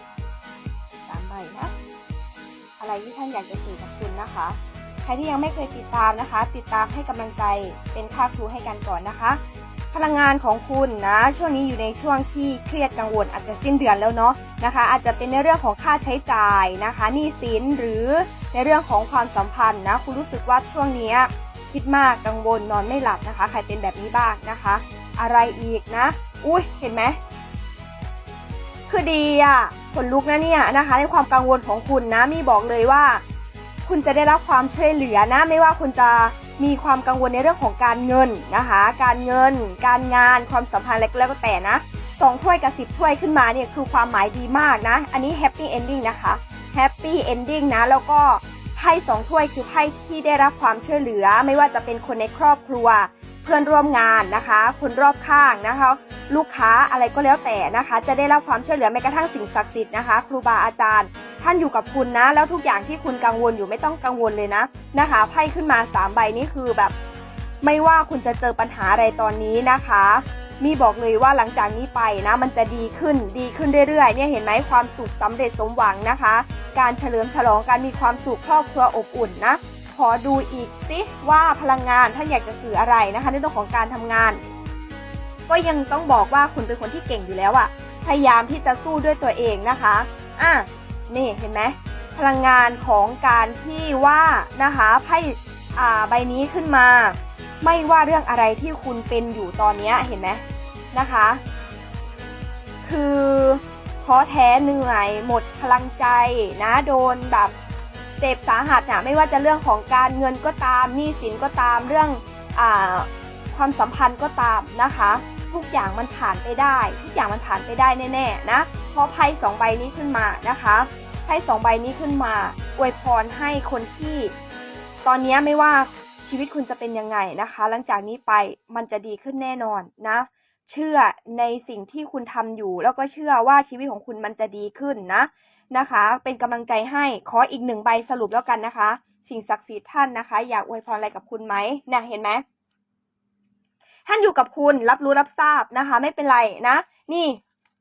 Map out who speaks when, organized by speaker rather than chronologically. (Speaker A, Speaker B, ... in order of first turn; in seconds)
Speaker A: 1.1-1.7, 2.8-9.4, 9.9-27.2, 28.9-33.2, 33.9-67.0, 67.6-84.4, 85.5-100.4, 100.9-101.4, 102.8-107.5, 108.2-124.3, 125.0-142.4, 144.1-147.4